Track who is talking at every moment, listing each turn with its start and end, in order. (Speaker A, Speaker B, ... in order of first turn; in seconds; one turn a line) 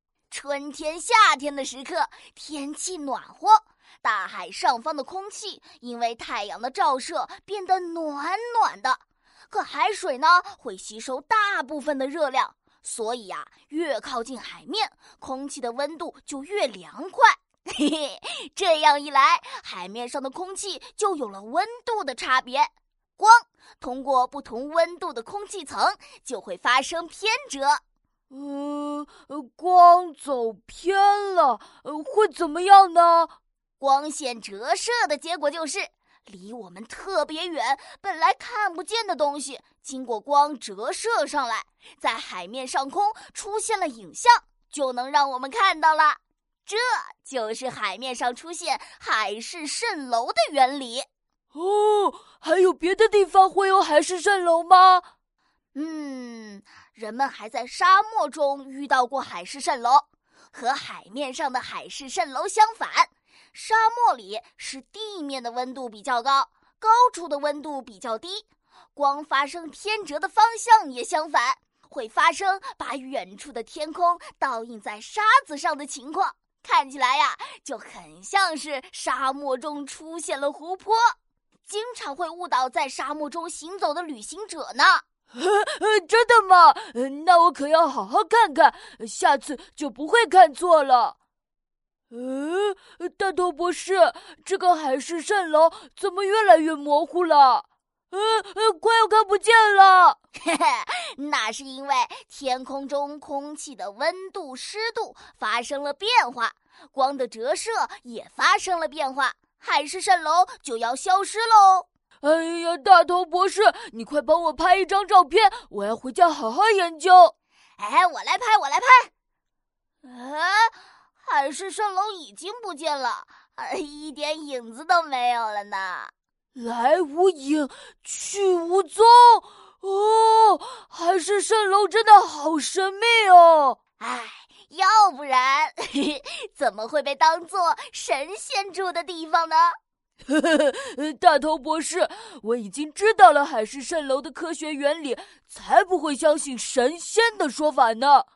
Speaker A: 0.3-27.8
Speaker B: 28.3-33.3
Speaker A: 33.8-51.1
Speaker B: 51.5-55.0
Speaker A: 55.7-81.1
Speaker A: 81.7-85.0
Speaker B: 85.3-91.1
Speaker B: 92.1-100.2
Speaker A: 100.4-111.9
Speaker B: 112.2-117.3
Speaker A: 117.8-119.1
Speaker A: 120.0-126.1
Speaker B: 126.5-133.8
Speaker A: 134.0-139.8
Speaker B: 140.3-148.2